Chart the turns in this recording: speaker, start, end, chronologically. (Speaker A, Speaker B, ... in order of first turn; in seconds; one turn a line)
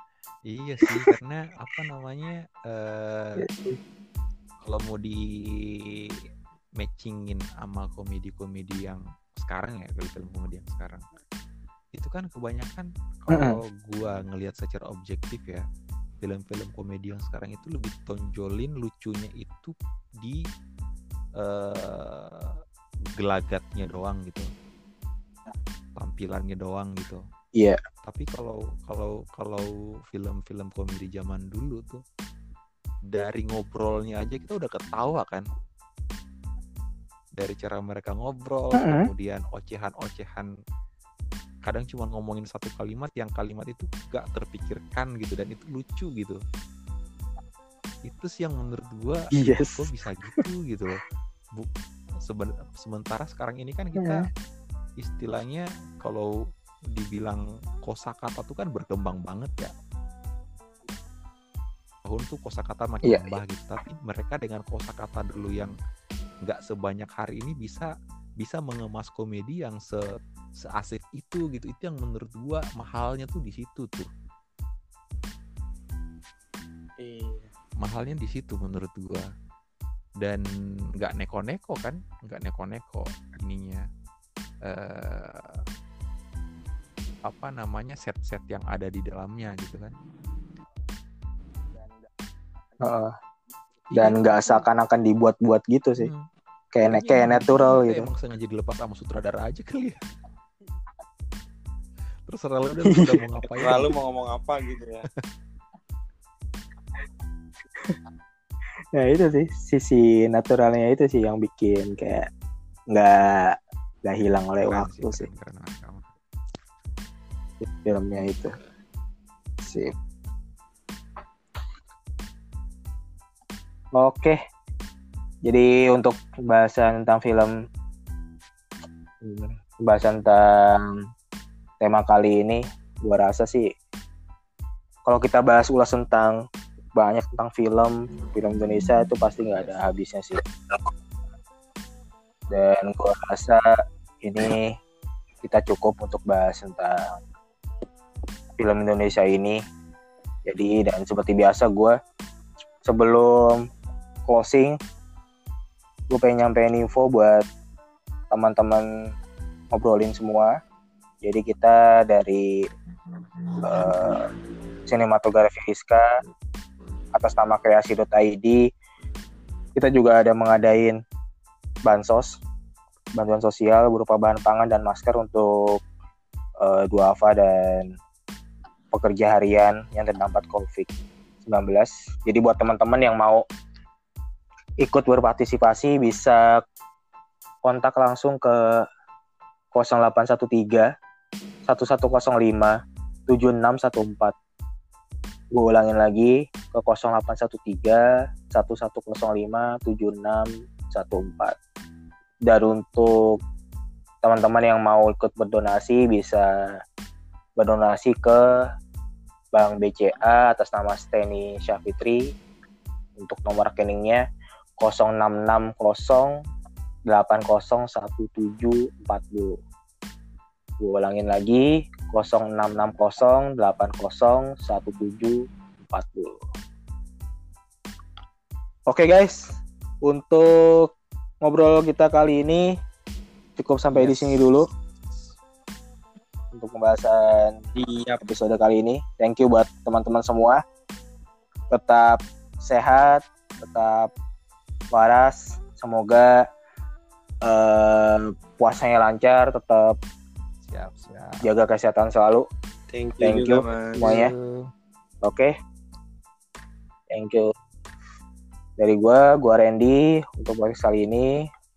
Speaker A: 0.5-3.5
Speaker B: 0.8-1.1
Speaker B: 3.4-3.8
Speaker A: 4.6-5.2
Speaker A: 6.8-11.1
Speaker A: 11.9-15.6
Speaker B: 13.3-13.6
Speaker A: 16.2-20.4
Speaker A: 21.4-22.5
Speaker A: 23.2-24.5
Speaker A: 26.0-27.2
Speaker A: 28.0-32.0
Speaker A: 33.1-35.5
Speaker A: 37.4-40.5
Speaker B: 38.8-39.1
Speaker A: 41.6-46.4
Speaker A: 48.1-51.0
Speaker B: 49.3-49.9
Speaker A: 52.2-54.3
Speaker B: 54.0-54.2
Speaker A: 55.0-56.3
Speaker A: 57.0-59.7
Speaker A: 62.0-65.7
Speaker B: 63.0-63.4
Speaker A: 66.5-70.0
Speaker A: 70.6-74.1
Speaker C: 77.0-77.5
Speaker A: 77.8-79.3
Speaker A: 81.0-83.8
Speaker A: 84.7-85.6
Speaker A: 87.3-89.9
Speaker B: 92.8-93.1
Speaker A: 93.9-94.6
Speaker B: 94.0-96.1
Speaker A: 96.0-96.3
Speaker B: 96.7-98.1
Speaker A: 96.8-100.0
Speaker A: 102.3-103.9
Speaker B: 102.9-103.4
Speaker C: 103.6-105.0
Speaker B: 109.0-112.3
Speaker B: 112.9-115.3
Speaker A: 114.6-116.1
Speaker B: 117.6-118.5
Speaker B: 119.6-119.9
Speaker B: 124.0-124.4
Speaker B: 125.5-127.5
Speaker B: 129.2-131.0
Speaker B: 131.8-133.7
Speaker B: 135.1-136.4
Speaker B: 137.0-140.4
Speaker A: 139.6-139.8
Speaker B: 142.5-143.7
Speaker B: 144.2-144.8
Speaker B: 145.4-147.2
Speaker B: 148.6-149.6
Speaker B: 150.5-152.0
Speaker B: 152.8-153.6
Speaker B: 154.3-154.8
Speaker B: 156.1-157.4
Speaker B: 158.3-158.9
Speaker B: 159.7-160.6
Speaker B: 161.2-162.6
Speaker B: 163.6-164.3
Speaker B: 164.9-166.1
Speaker B: 167.1-168.6
Speaker B: 169.8-171.0
Speaker B: 171.9-172.4
Speaker B: 173.2-175.8
Speaker B: 176.6-177.9
Speaker B: 178.9-180.9
Speaker B: 181.5-183.4
Speaker B: 184.8-186.6
Speaker B: 187.6-188.9
Speaker B: 189.7-190.9
Speaker B: 191.7-192.8
Speaker B: 193.3-194.3
Speaker B: 195.5-201.6
Speaker B: 202.5-203.4
Speaker B: 204.2-206.5
Speaker B: 207.6-208.7
Speaker B: 209.5-212.3
Speaker B: 213.2-214.2
Speaker B: 214.8-216.4
Speaker B: 217.1-219.6
Speaker B: 220.8-226.4
Speaker B: 228.9-232.7
Speaker B: 233.6-234.7
Speaker A: 233.9-234.6
Speaker B: 236.5-237.6
Speaker C: 237.8-238.2
Speaker B: 238.2-240.6
Speaker B: 241.7-244.1
Speaker B: 244.9-246.4
Speaker B: 247.4-250.0
Speaker A: 250.6-251.5
Speaker B: 251.4-252.5
Speaker C: 252.9-254.1
Speaker B: 253.2-254.3
Speaker A: 254.0-254.7
Speaker B: 255.2-255.5
Speaker B: 257.1-257.5
Speaker B: 258.8-261.4